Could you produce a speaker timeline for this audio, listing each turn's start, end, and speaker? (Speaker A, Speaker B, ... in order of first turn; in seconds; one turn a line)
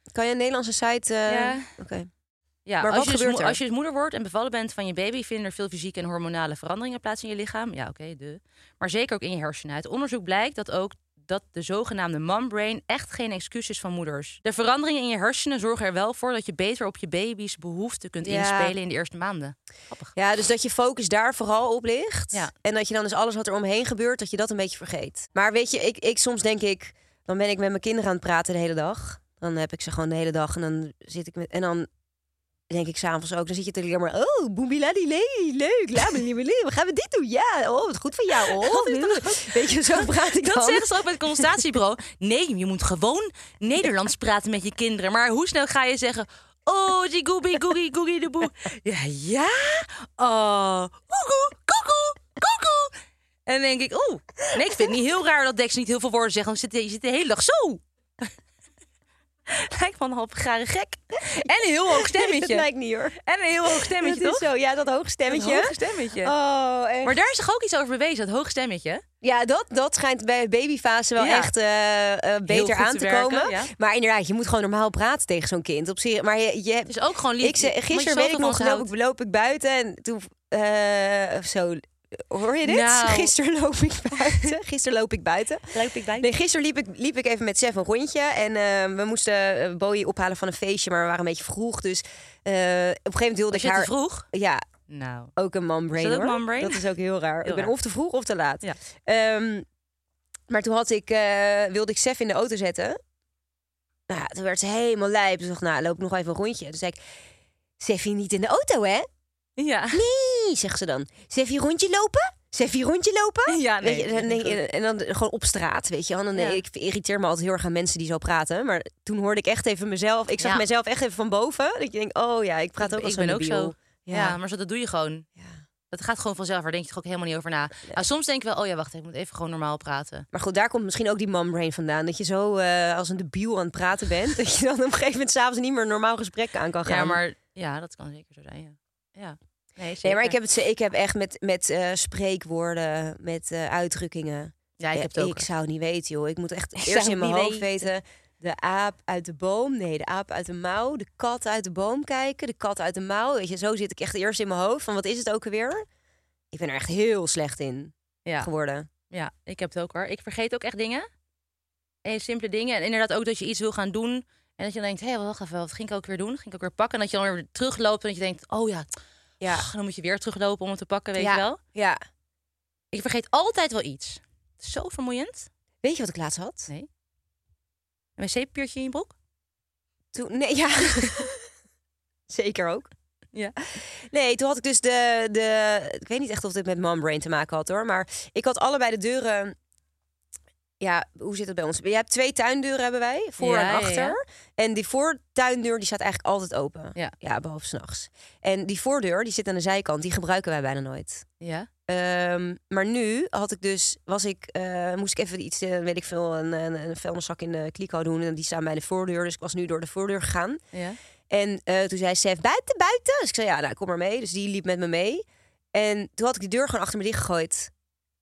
Speaker A: 0.1-2.1
Speaker B: 1.3-1.7
Speaker B: 2.7-20.1
Speaker A: 2.8-3.6
Speaker A: 18.2-18.7
Speaker A: 20.1-31.9
Speaker A: 32.7-41.4
Speaker B: 38.5-58.3
Speaker B: 59.5-62.7
Speaker A: 61.9-67.2
Speaker B: 63.2-64.5
Speaker B: 65.3-66.3
Speaker B: 67.0-69.0
Speaker A: 69.2-94.7
Speaker B: 71.2-71.5
Speaker B: 72.5-73.7
Speaker B: 76.9-78.9
Speaker B: 82.7-83.3
Speaker B: 85.7-86.3
Speaker B: 93.5-94.3
Speaker B: 94.9-95.3
Speaker A: 95.4-99.7
Speaker B: 96.0-96.8
Speaker B: 97.4-97.7
Speaker A: 100.5-103.0
Speaker A: 104.1-107.0
Speaker A: 107.8-109.1
Speaker B: 109.6-110.0
Speaker A: 109.9-124.4
Speaker B: 113.5-114.6
Speaker B: 116.3-116.6
Speaker B: 122.8-125.3
Speaker B: 125.9-130.3
Speaker A: 130.3-137.2
Speaker B: 136.8-140.4
Speaker A: 140.0-155.9
Speaker B: 144.8-145.5
Speaker B: 146.8-147.9
Speaker A: 156.5-158.9
Speaker B: 158.3-158.5
Speaker B: 159.1-161.1
Speaker B: 162.1-168.9
Speaker B: 169.5-171.6
Speaker A: 171.2-172.0
Speaker B: 172.9-175.5
Speaker A: 175.8-176.7
Speaker B: 178.2-179.1
Speaker A: 180.1-181.5
Speaker B: 181.0-181.2
Speaker A: 182.3-182.9
Speaker A: 183.8-189.6
Speaker A: 190.8-201.3
Speaker B: 193.4-194.2
Speaker B: 201.4-201.7
Speaker A: 201.9-210.6
Speaker B: 210.7-211.0
Speaker A: 211.3-217.7